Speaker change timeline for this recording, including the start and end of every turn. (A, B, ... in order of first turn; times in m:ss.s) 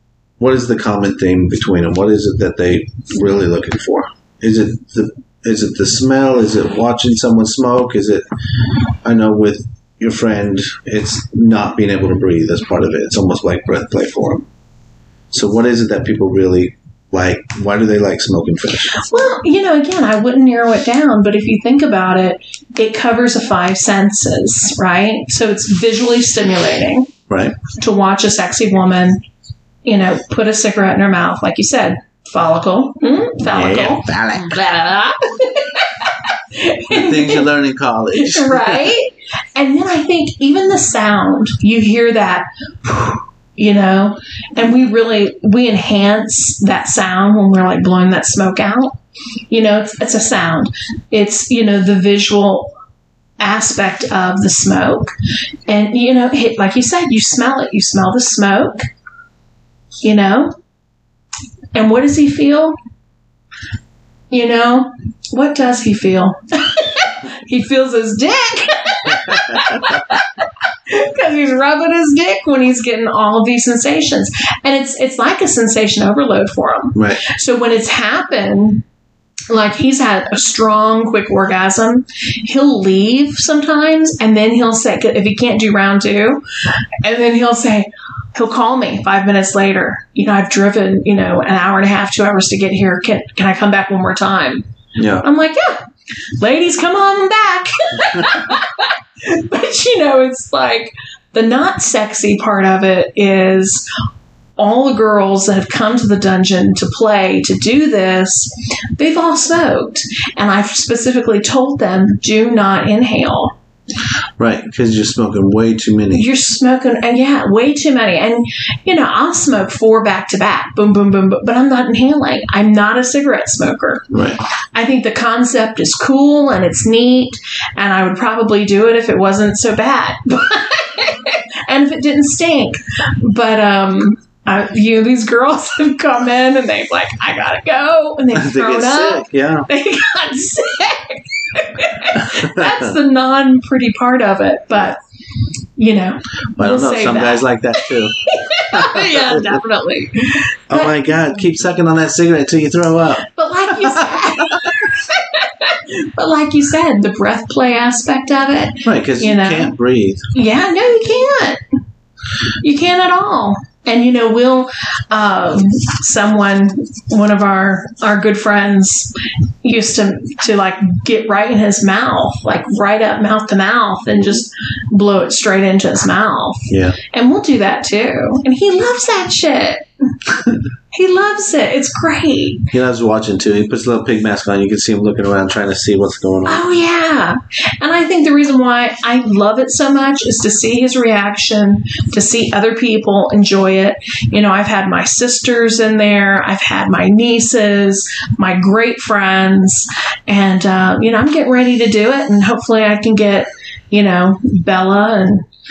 0:00.4-0:08.2 A
0:09.0-0:14.4 A
0:15.3-0:19.0 A
0:18.9-0:27.1 B
0:27.3-0:27.6 A
0:27.7-0:29.2 B
0:29.8-0:37.5 B
0:33.4-0:34.6 A
0:36.9-0:38.9 A
0:38.2-0:49.0 B
0:49.5-0:52.7 B
0:53.4-0:55.1 B
0:55.7-0:58.8 B
1:00.0-1:00.5 B
1:01.7-1:02.8 B
1:04.3-1:18.8 B
1:09.1-1:10.0 A
1:16.9-1:17.2 A
1:19.5-1:26.4 B
1:27.0-1:34.6 B
1:35.0-1:35.2 A
1:35.2-1:35.8 B
1:36.4-1:43.8 B
1:38.1-1:38.4 A
1:44.6-1:53.5 B
1:54.4-1:56.3 A
1:56.1-2:04.1 B
2:04.1-2:04.4 A
2:04.7-2:25.0 B
2:18.3-2:19.7 A
2:22.1-2:23.0 A
2:25.8-2:31.0 B
2:26.6-2:29.6 A
2:30.7-2:34.8 A
2:33.3-2:39.7 B
2:38.8-2:40.3 A
2:40.3-2:41.6 B
2:42.6-2:49.1 B
2:49.6-2:59.8 B
2:56.7-2:57.0 A
3:00.9-3:02.7 B
3:02.7-3:06.7 A
3:06.4-3:25.4 B